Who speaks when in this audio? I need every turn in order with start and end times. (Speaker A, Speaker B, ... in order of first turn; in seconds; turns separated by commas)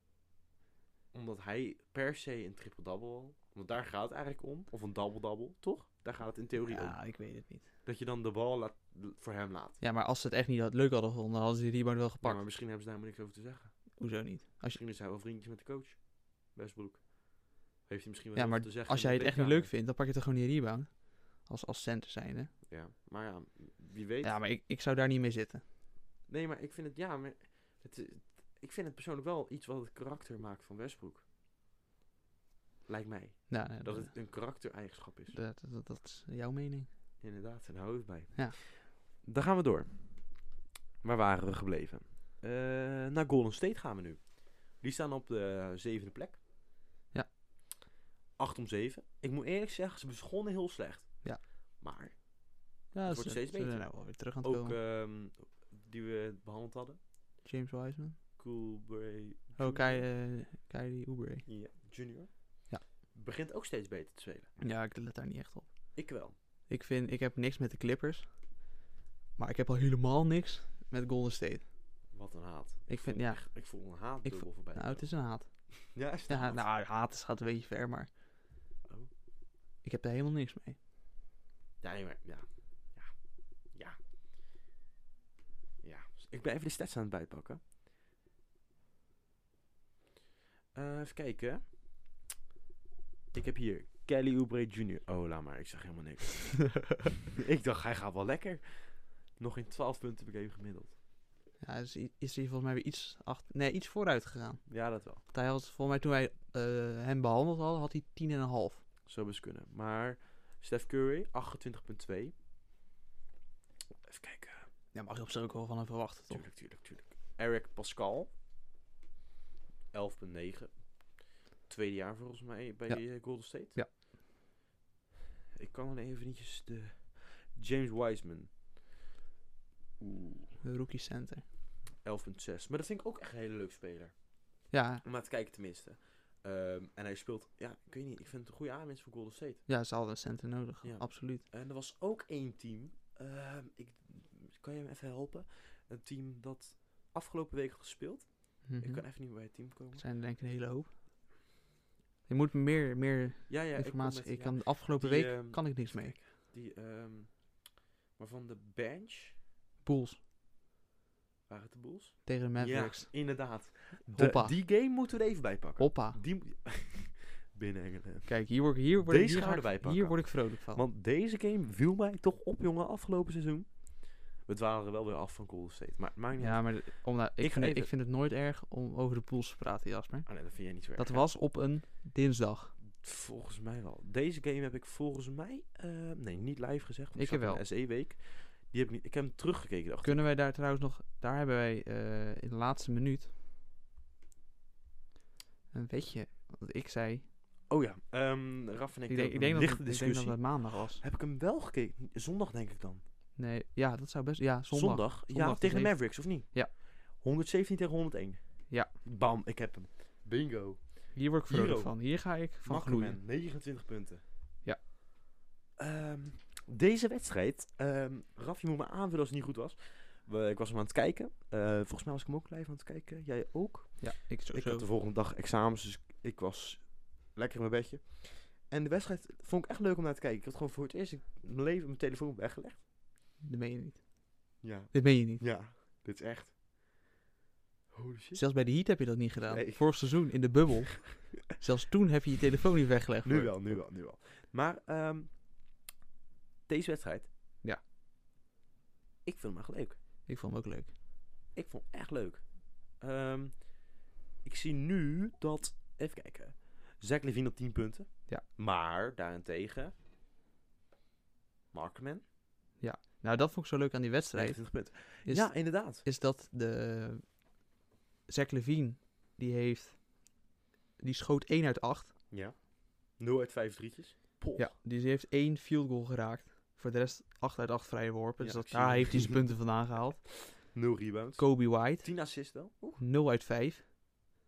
Speaker A: 1.1-7.1, Speaker B: 6.6-7.7, Speaker A: 7.8-9.8, Speaker B: 9.8-12.4, Speaker A: 12.2-14.0, Speaker B: 14.0-14.8, Speaker A: 14.7-19.7, Speaker B: 18.4-22.5, Speaker A: 22.7-24.4, Speaker B: 24.2-25.6, Speaker A: 26.3-31.2, Speaker A: 32.9-35.4, Speaker B: 33.5-34.7, Speaker B: 35.3-36.9, Speaker A: 37.2-40.5, Speaker A: 41.0-46.4, Speaker A: 48.4-57.0, Speaker B: 52.9-54.8, Speaker B: 57.4-58.2, Speaker A: 58.4-60.1, Speaker B: 59.6-61.5, Speaker A: 61.5-64.5, Speaker B: 64.6-66.1, Speaker A: 66.0-66.3, Speaker B: 66.7-68.7, Speaker B: 69.4-71.7, Speaker A: 72.1-75.1, Speaker B: 72.9-78.1, Speaker A: 75.9-76.7, Speaker A: 78.8-79.1, Speaker B: 79.8-80.8, Speaker A: 81.8-84.0, Speaker A: 85.8-87.6, Speaker A: 90.7-91.7, Speaker A: 93.3-101.0, Speaker B: 101.6-108.8, Speaker A: 104.7-105.2, Speaker A: 109.1-112.3, Speaker A: 114.0-114.7, Speaker B: 114.9-116.5, Speaker A: 116.3-118.3, Speaker A: 119.9-123.8, Speaker B: 122.9-123.9, Speaker A: 125.5-128.6, Speaker A: 130.0-130.6, Speaker B: 130.6-131.4, Speaker A: 132.0-139.7, Speaker B: 134.7-135.0, Speaker B: 139.7-141.4, Speaker A: 140.8-150.1, Speaker B: 148.6-150.9, Speaker B: 152.3-156.2, Speaker A: 153.5-159.4, Speaker B: 159.8-160.2, Speaker A: 161.5-177.9, Speaker B: 162.2-164.6, Speaker B: 165.8-166.2, Speaker B: 168.3-170.8, Speaker B: 176.4-182.8, Speaker A: 180.3-181.3, Speaker A: 182.9-190.2, Speaker B: 187.2-187.7, Speaker B: 190.0-193.3, Speaker B: 195.7-197.3, Speaker A: 197.7-203.0, Speaker B: 199.1-201.0, Speaker B: 203.4-206.7, Speaker A: 204.7-214.2, Speaker B: 211.1-213.2, Speaker A: 215.8-232.8, Speaker B: 224.0-224.9, Speaker B: 233.4-235.5, Speaker A: 234.6-236.6, Speaker A: 237.9-238.4, Speaker B: 238.3-243.8, Speaker A: 239.4-240.4, Speaker A: 243.2-245.4, Speaker A: 246.7-247.3, Speaker A: 249.2-250.0, Speaker B: 250.3-250.9, Speaker A: 251.5-259.9, Speaker A: 261.7-262.2, Speaker B: 262.8-267.5, Speaker A: 264.3-266.1, Speaker B: 268.3-270.4, Speaker B: 271.0-272.2, Speaker A: 272.3-274.7, Speaker B: 274.6-280.8, Speaker A: 278.4-279.6, Speaker A: 280.6-283.0, Speaker B: 281.4-284.3